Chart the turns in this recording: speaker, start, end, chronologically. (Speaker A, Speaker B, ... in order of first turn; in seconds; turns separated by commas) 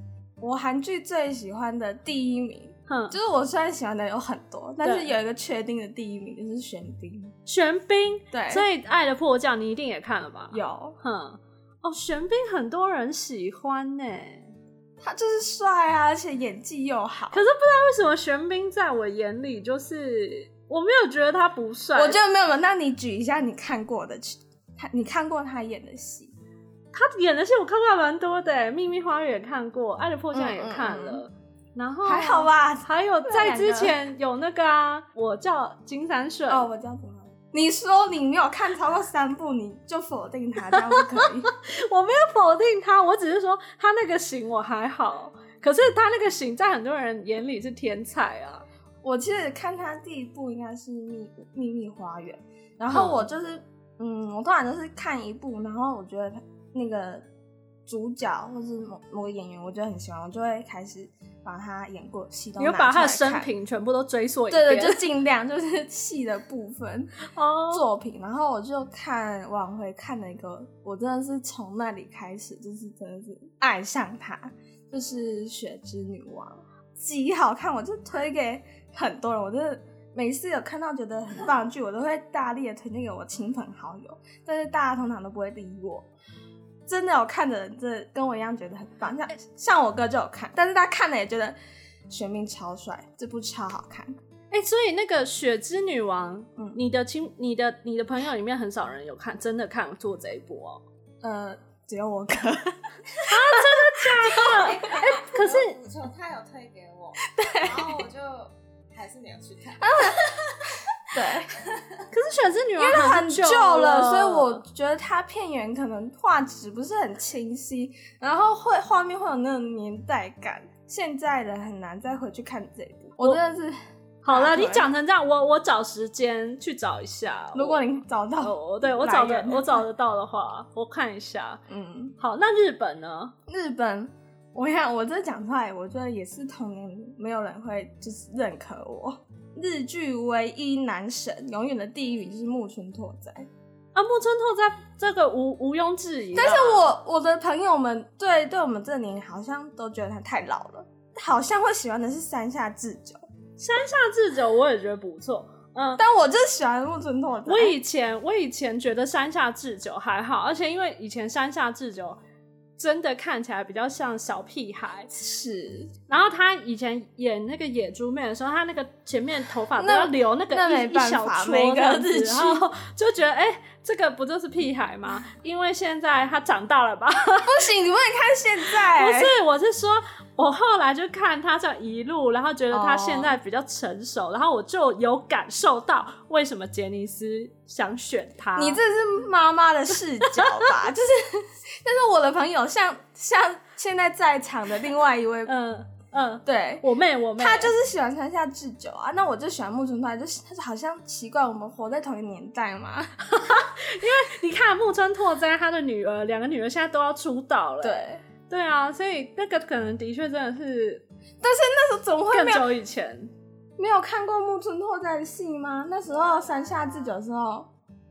Speaker A: 0.4-7.3, Speaker B: 2.9-3.2, Speaker B: 4.8-5.1, Speaker B: 7.5-14.5, Speaker A: 8.3-8.7, Speaker A: 10.5-11.0, Speaker A: 15.0-17.4, Speaker B: 17.3-22.2, Speaker A: 21.9-26.3, Speaker B: 26.9-36.7, Speaker A: 30.3-31.2, Speaker A: 32.0-34.0, Speaker A: 36.5-41.5, Speaker B: 40.7-48.6, Speaker A: 49.0-57.2, Speaker B: 52.9-53.2, Speaker A: 57.9-63.5, Speaker B: 62.6-65.0, Speaker A: 64.5-67.1, Speaker B: 67.3-67.8, Speaker A: 67.7-86.1, Speaker A: 86.9-91.6, Speaker A: 92.1-94.2, Speaker B: 94.5-100.8, Speaker A: 101.2-104.7, Speaker B: 103.2-105.8, Speaker C: 104.3-112.0, Speaker A: 107.3-108.1, Speaker A: 109.8-110.3, Speaker A: 111.1-111.5, Speaker B: 112.1-114.6, Speaker A: 112.8-124.9, Speaker B: 124.2-127.8, Speaker A: 127.5-129.8, Speaker B: 128.4-131.6, Speaker A: 131.7-132.1, Speaker B: 132.2-133.3, Speaker A: 133.5-143.5, Speaker B: 143.9-146.8, Speaker A: 146.3-153.2, Speaker B: 153.6-156.0, Speaker A: 155.9-157.8, Speaker B: 157.5-162.2, Speaker B: 162.8-165.1, Speaker A: 165.1-165.9, Speaker B: 166.1-177.6, Speaker A: 169.8-172.7, Speaker A: 177.3-179.3, Speaker B: 178.7-188.8, Speaker A: 182.7-183.4, Speaker A: 188.6-195.5, Speaker B: 190.3-190.7, Speaker B: 195.4-197.7, Speaker A: 196.4-203.2, Speaker B: 203.3-211.0, Speaker A: 207.8-208.2, Speaker A: 211.4-212.7, Speaker B: 212.3-213.3, Speaker A: 213.8-217.7, Speaker C: 216.1-217.1